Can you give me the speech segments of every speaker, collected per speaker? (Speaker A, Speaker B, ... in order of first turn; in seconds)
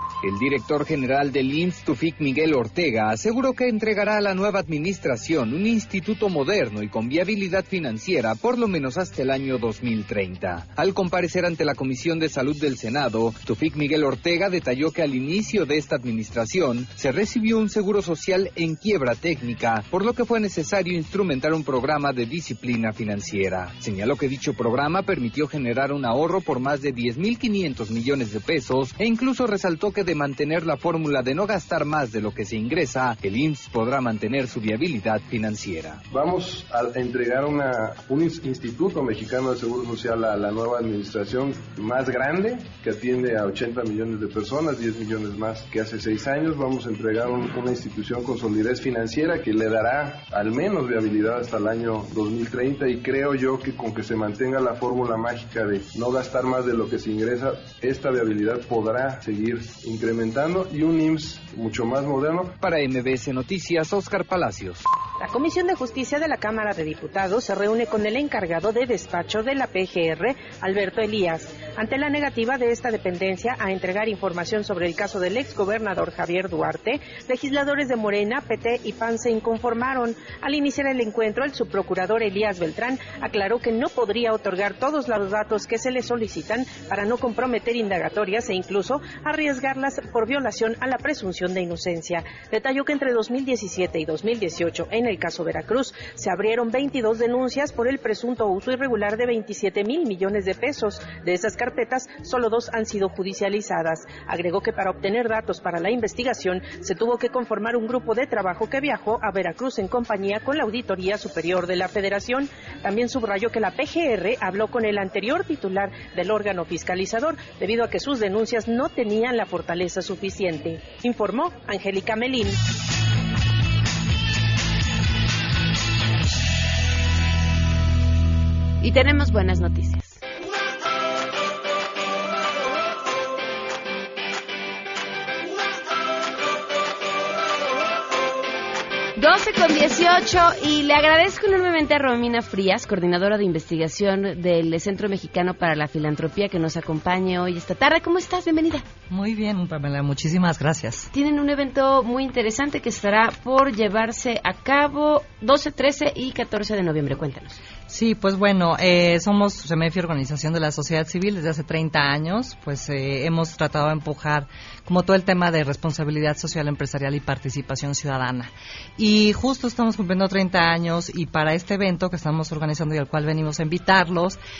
Speaker A: 0.2-36.0, 62.6-64.8
Speaker B: 36.1-62.6
Speaker C: 65.2-122.6
Speaker D: 128.8-130.2, 139.2-148.9, 151.1-157.6
Speaker E: 149.1-151.1, 157.9-174.4